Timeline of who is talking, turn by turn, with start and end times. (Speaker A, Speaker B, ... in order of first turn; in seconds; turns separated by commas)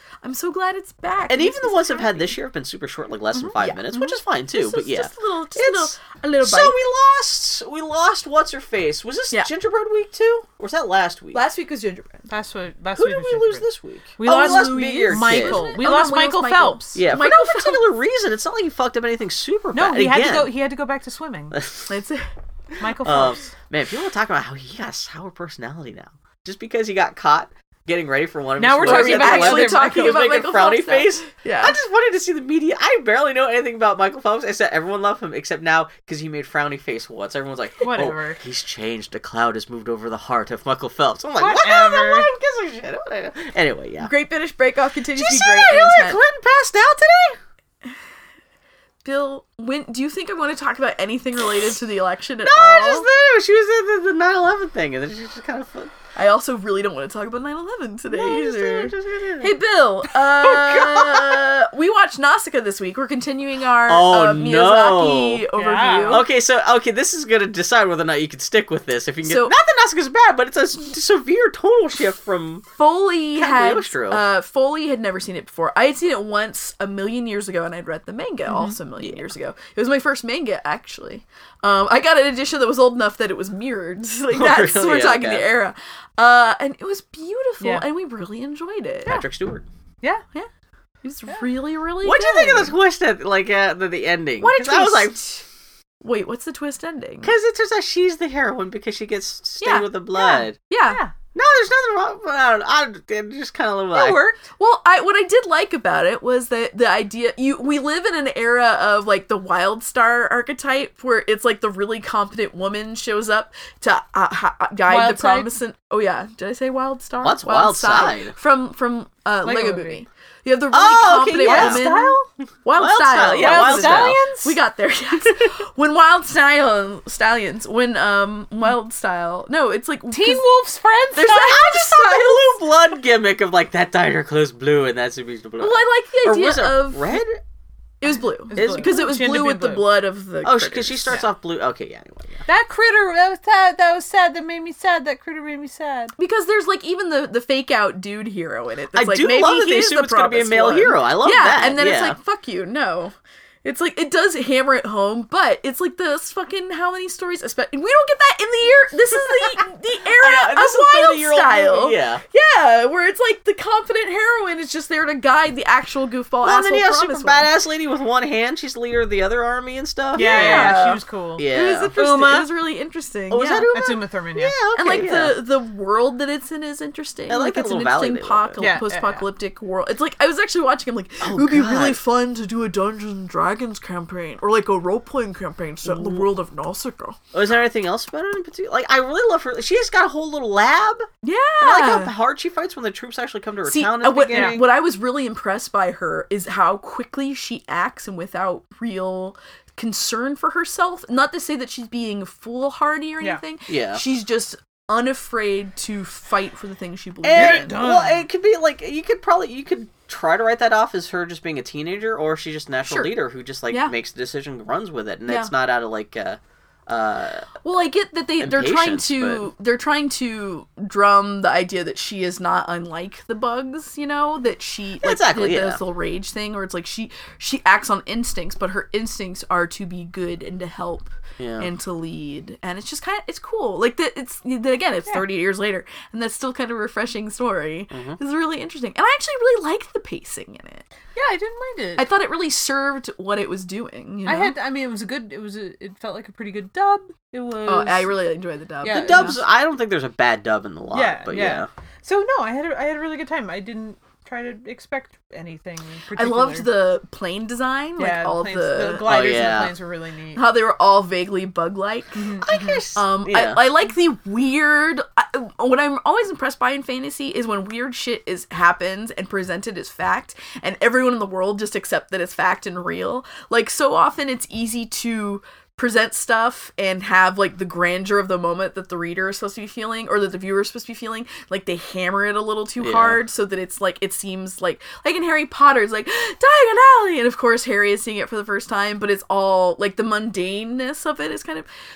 Speaker A: 0.2-2.3, Speaker B: 1.3-11.4, Speaker A: 3.6-6.8, Speaker A: 11.3-12.3, Speaker C: 12.3-13.7, Speaker B: 12.9-15.6, Speaker C: 14.2-17.0, Speaker A: 14.2-17.8, Speaker B: 16.9-20.5, Speaker C: 19.7-21.6, Speaker B: 21.5-21.9, Speaker A: 21.9-22.3, Speaker C: 22.8-23.5, Speaker B: 23.0-44.1, Speaker C: 28.6-30.3, Speaker A: 28.8-31.8, Speaker C: 37.8-38.4, Speaker C: 41.4-42.3, Speaker A: 44.0-46.2, Speaker B: 45.1-47.4, Speaker A: 49.0-53.1, Speaker B: 52.4-55.9, Speaker A: 56.1-66.2, Speaker B: 58.1-59.5, Speaker B: 60.4-61.4, Speaker B: 63.9-65.4, Speaker C: 65.5-66.2, Speaker B: 66.0-72.7, Speaker A: 69.2-69.5, Speaker A: 72.8-89.2, Speaker B: 73.3-74.2, Speaker C: 78.5-78.8, Speaker B: 84.3-85.5, Speaker C: 87.6-87.8, Speaker B: 89.0-89.6, Speaker A: 91.0-92.7, Speaker B: 92.0-95.2, Speaker A: 94.4-95.4, Speaker A: 96.0-97.3, Speaker B: 97.2-100.6, Speaker A: 99.6-101.0, Speaker C: 100.9-101.1, Speaker B: 101.3-104.2, Speaker C: 103.9-104.4, Speaker A: 104.5-130.4, Speaker C: 114.9-115.5, Speaker B: 117.2-118.3, Speaker C: 119.4-120.0, Speaker B: 120.7-121.9, Speaker C: 121.4-122.2, Speaker B: 122.7-124.2, Speaker C: 123.4-124.6, Speaker C: 130.1-131.6, Speaker A: 131.1-132.6, Speaker B: 131.2-137.4, Speaker A: 135.6-137.2, Speaker A: 138.0-141.2, Speaker C: 138.5-139.9, Speaker B: 138.6-138.9, Speaker B: 140.4-142.4, Speaker C: 142.5-146.1, Speaker A: 146.2-167.5, Speaker B: 148.9-152.2, Speaker B: 160.1-162.2, Speaker B: 166.4-170.8, Speaker C: 170.1-172.5, Speaker A: 170.2-173.7, Speaker B: 171.4-171.9, Speaker B: 173.3-175.4, Speaker C: 173.7-174.6, Speaker A: 174.7-187.2, Speaker B: 177.3-178.7, Speaker C: 178.6-179.3, Speaker B: 181.2-182.0, Speaker B: 185.8-186.3, Speaker B: 187.3-191.1, Speaker A: 191.2-192.1, Speaker B: 191.6-194.6, Speaker A: 193.7-207.8, Speaker C: 194.3-194.7, Speaker B: 203.7-204.0, Speaker B: 207.2-217.5, Speaker C: 207.3-208.2, Speaker A: 212.9-213.1, Speaker A: 213.7-213.9, Speaker A: 215.3-215.5, Speaker A: 217.6-240.8, Speaker B: 218.4-219.5, Speaker B: 225.0-225.8, Speaker B: 231.4-231.7, Speaker B: 237.9-238.2, Speaker C: 241.1-242.1, Speaker A: 242.0-244.5, Speaker C: 244.2-248.1, Speaker A: 247.6-249.3, Speaker C: 248.8-249.4, Speaker B: 248.8-251.7, Speaker C: 250.9-256.7, Speaker A: 256.1-259.1, Speaker C: 258.0-260.4, Speaker B: 259.0-259.7, Speaker A: 260.4-262.4, Speaker C: 262.1-262.8, Speaker B: 262.4-263.7, Speaker A: 262.9-291.7, Speaker B: 282.8-283.2